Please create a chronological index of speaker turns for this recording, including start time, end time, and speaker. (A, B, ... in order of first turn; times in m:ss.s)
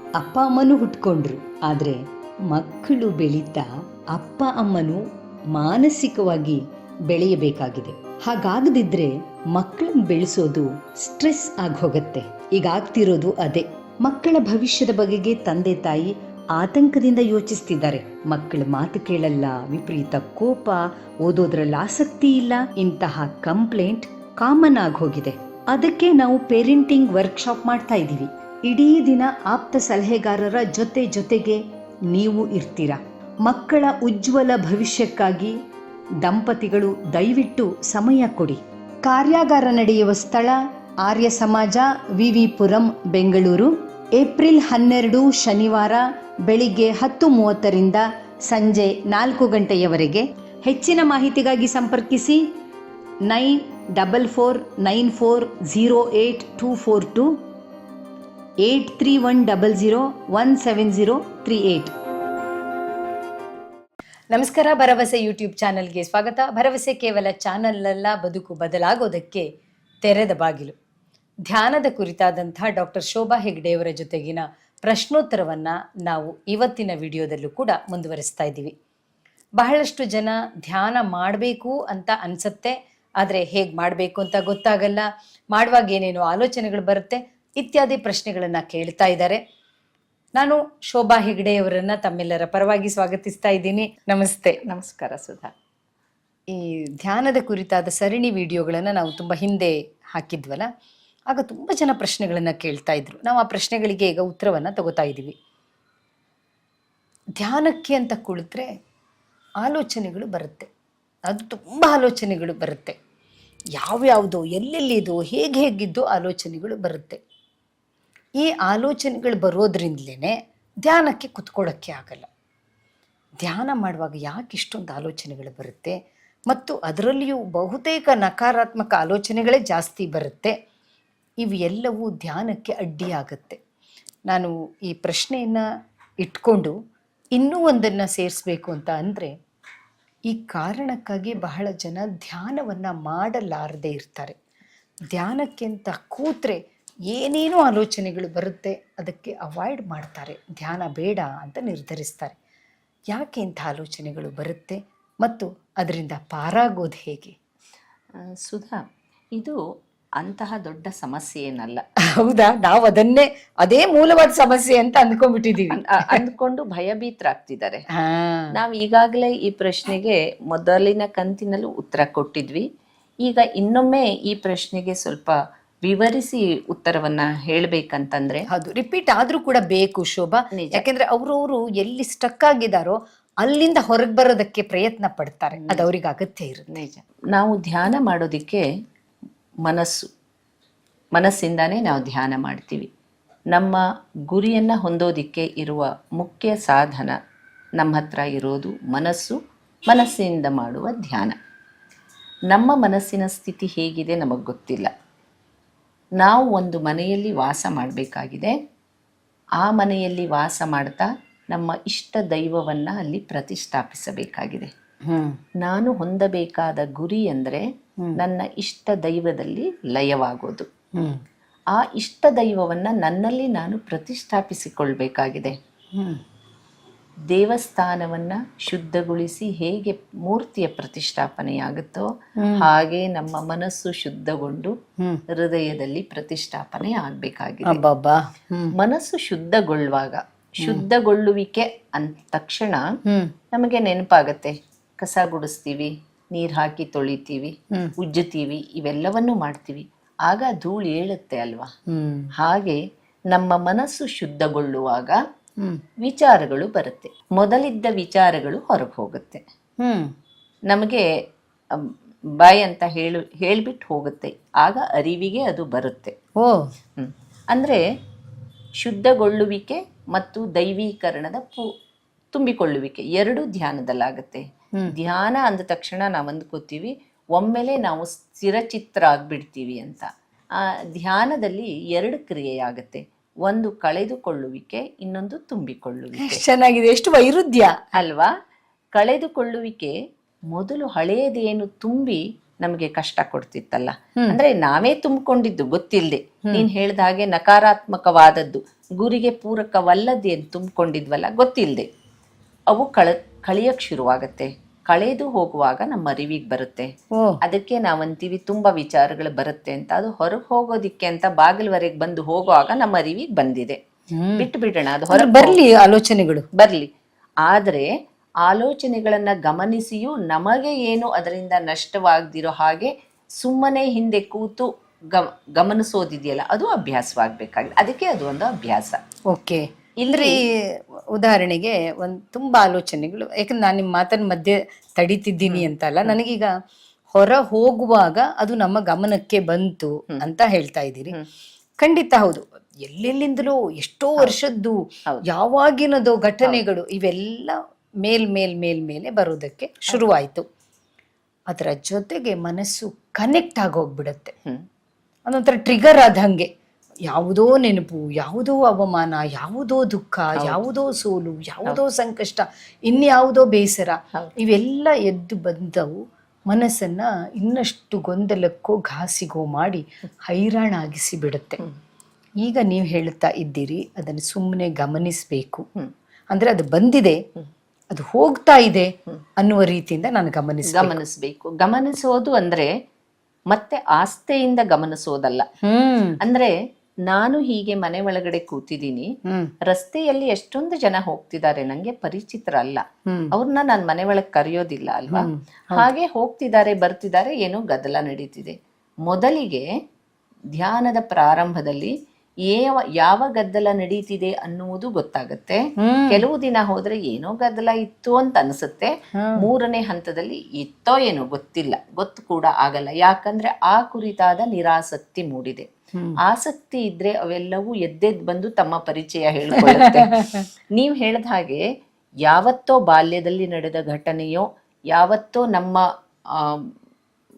0:00.2-0:02.0 A
0:02.5-0:05.0 A
0:05.5-0:35.6 A
0:36.2-0:52.5 A
0:53.3-0:57.4 A
0:58.6-1:01.9 A
1:04.3-1:09.5 A
1:10.0-1:10.8 A
1:11.5-1:18.7 A
1:19.6-1:29.4 A
1:30.4-1:34.6 A
1:34.7-1:35.5 B
1:36.5-1:40.7 A
1:41.3-1:45.3 A
1:47.4-1:48.7 A
1:49.6-1:50.7 A
1:51.3-1:53.0 A
1:53.8-1:57.2 A
1:58.4-2:02.3 A
2:03.4-2:05.9 A
2:06.5-2:10.5 A
2:11.4-2:13.6 A
2:14.3-2:15.6 A
2:16.2-2:16.8 A
2:17.4-2:19.3 A
2:20.3-2:24.4 A
2:25.1-2:32.4 A
2:33.1-2:37.4 A
2:38.2-2:38.8 B
2:40.2-2:41.8 B
2:42.2-2:46.2 A
2:45.7-2:47.8 B
2:48.0-2:48.6 A
2:48.5-2:52.7 B
2:53.2-2:58.5 B
2:58.5-3:06.8 A
3:00.5-3:00.8 B
3:05.6-3:05.8 B
3:06.7-3:08.6 B
3:09.6-3:10.1 B
3:11.2-3:12.9 B
3:13.5-3:17.2 B
3:17.8-3:19.4 B
3:19.9-3:21.3 B
3:22.5-3:24.9 B
3:26.2-3:28.5 B
3:29.6-3:34.7 B
3:35.1-3:35.4 A
3:35.6-3:37.6 B
3:38.2-3:40.7 B
3:41.7-3:45.6 B
3:46.0-3:46.2 A
3:47.3-3:54.7 B
3:52.4-3:52.7 A
3:55.3-3:57.8 B
3:57.6-3:58.8 A
3:58.8-4:02.8 B
4:03.1-4:03.3 A
4:03.5-4:11.7 B
4:11.9-4:12.3 A
4:12.4-4:12.8 B
4:13.3-4:15.2 B
4:16.0-4:19.4 B
4:19.8-4:20.1 A
4:20.7-4:21.0 B
4:21.7-4:26.1 B
4:26.4-4:26.7 A
4:27.0-4:27.8 B
4:28.8-4:31.7 B
4:32.3-4:46.4 B
4:46.2-4:48.0 A
4:47.9-4:48.3 B
4:48.9-4:49.9 B
4:50.5-5:01.9 B
5:02.7-5:06.9 B
5:07.4-5:13.8 B
5:14.2-5:14.5 A
5:14.4-5:15.6 B
5:15.1-5:16.4 A
5:16.6-5:16.9 B
5:17.4-5:17.9 B
5:18.4-5:29.0 B
5:29.3-5:30.5 A
5:30.0-5:30.4 B
5:31.1-5:36.5 A
5:35.5-5:36.2 B
5:37.1-5:41.2 A
5:41.8-5:50.4 A
5:51.5-5:54.4 A
5:55.3-5:56.5 A
5:57.1-6:11.6 A
6:12.4-6:15.6 A
6:16.3-6:17.2 A
6:17.9-6:21.0 A
6:20.7-6:22.7 B
6:23.5-6:25.4 B
6:25.6-6:26.2 A
6:26.2-6:26.6 B
6:27.1-6:29.1 B
6:29.3-6:29.5 A
6:29.7-6:39.7 B
6:33.1-6:33.3 A
6:35.1-6:35.9 A
6:40.6-6:41.9 B
6:42.5-6:55.7 B
6:45.8-6:46.3 A
6:49.2-6:49.5 A
6:56.2-7:01.6 B
6:59.6-7:00.4 A
7:02.2-7:06.7 B